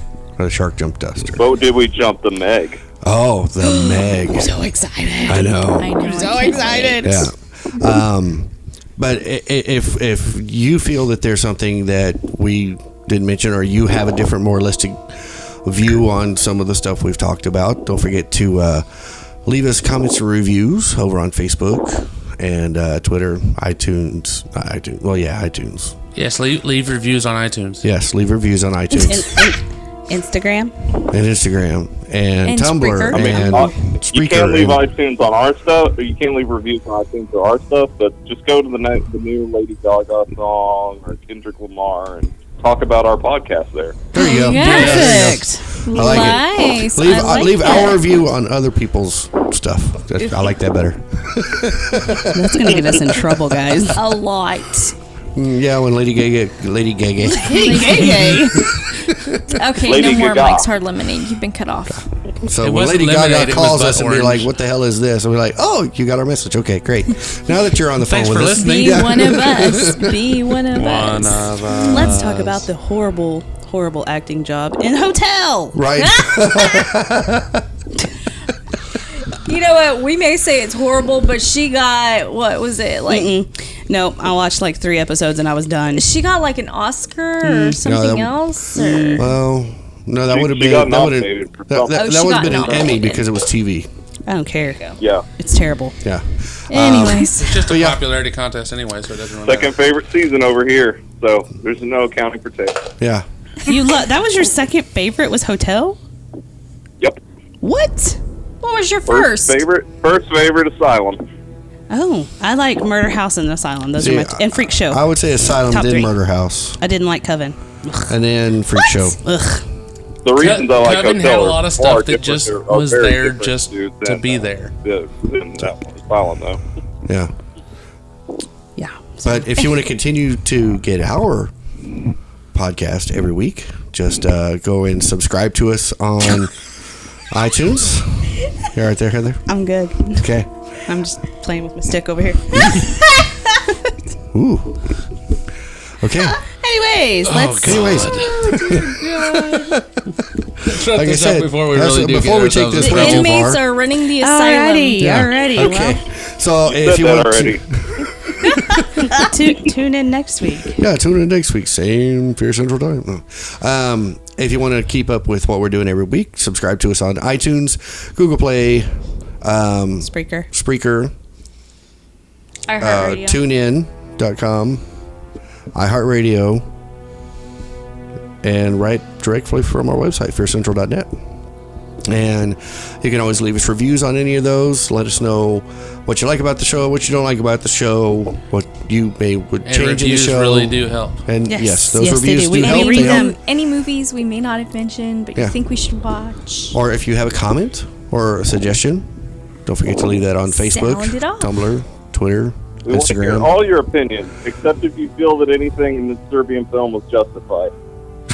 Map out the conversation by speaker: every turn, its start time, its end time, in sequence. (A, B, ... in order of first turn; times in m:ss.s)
0:00.4-0:01.4 A
0:01.4-0:02.8 B
0:03.0-0:04.5 A
0:04.3-0:07.3 C
0:05.2-0:06.0 A
0:05.8-0:07.0 D
0:07.0-0:18.9 A
0:19.4-0:25.9 A
0:26.1-0:27.8 E
0:27.8-0:29.4 A
0:28.9-0:30.7 C
0:31.1-0:34.8 A
0:32.4-0:33.4 D
0:32.7-0:33.6 C
0:33.1-0:44.1 B
0:44.1-0:52.6 A
0:44.1-0:45.2 D
0:44.4-0:45.7 C
0:45.8-0:48.0 D
0:52.3-0:54.0 C
0:54.0-0:54.9 D
0:55.3-0:59.5 A
0:57.2-0:58.7 C
0:57.5-0:58.4 D
0:59.5-1:02.0 D
0:59.8-1:00.7 B
1:01.9-1:10.4 A
1:02.6-1:04.5 E
1:08.0-1:09.4 E
1:08.5-1:11.5 D
1:10.7-1:12.6 E
1:11.8-1:15.8 C
1:15.7-1:17.6 A
1:16.0-1:16.9 D
1:19.4-1:23.3 D
1:23.1-1:26.1 C
1:25.9-1:29.3 D
1:27.4-1:27.8 C
1:27.8-1:28.4 A
1:28.7-1:29.2 C
1:29.2-1:33.9 A
1:30.3-1:32.6 B
1:31.9-1:33.2 D
1:34.3-1:36.0 C
1:35.0-1:35.2 B
1:36.0-1:38.0 A
1:36.7-1:37.6 D
1:37.2-1:39.7 E
1:39.4-1:42.8 B
1:43.0-1:43.2 A
1:43.6-1:46.0 C
1:47.6-1:48.2 C
1:48.6-1:49.6 D
1:49.1-1:51.2 B
1:51.9-1:56.1 C
1:54.0-1:56.8 A
1:56.8-1:58.1 C
1:58.1-1:59.2 A
1:58.8-1:59.6 C
2:00.2-2:06.6 B
2:00.4-2:04.7 E
2:07.0-2:07.3 A
2:08.8-2:09.6 C
2:09.2-2:11.5 A
2:12.5-2:16.5 A
2:17.3-2:19.5 A
2:19.5-2:20.3 C
2:20.1-2:20.5 A
2:20.8-2:22.9 C
2:24.3-2:24.8 A
2:26.0-2:26.4 A
2:26.4-2:27.8 C
2:27.2-2:28.5 E
2:27.6-2:29.8 A
2:28.1-2:29.7 D
2:30.6-2:33.3 E
2:30.6-2:33.6 A
2:32.8-2:35.1 D
2:34.2-2:36.0 C
2:35.0-2:39.0 A
2:36.7-2:37.6 B
2:39.1-2:40.8 C
2:40.8-2:48.9 A
2:49.4-2:51.1 A
2:50.0-2:50.5 C
2:52.7-2:53.4 D
2:52.8-2:54.8 A
2:55.7-2:56.6 A
2:58.4-3:01.1 A
3:02.0-3:13.3 A
3:09.6-3:11.2 E
3:11.5-3:13.4 C
3:12.6-3:16.8 D
3:16.7-3:19.1 A
3:19.6-3:23.5 A
3:20.5-3:21.5 D
3:22.8-3:27.7 B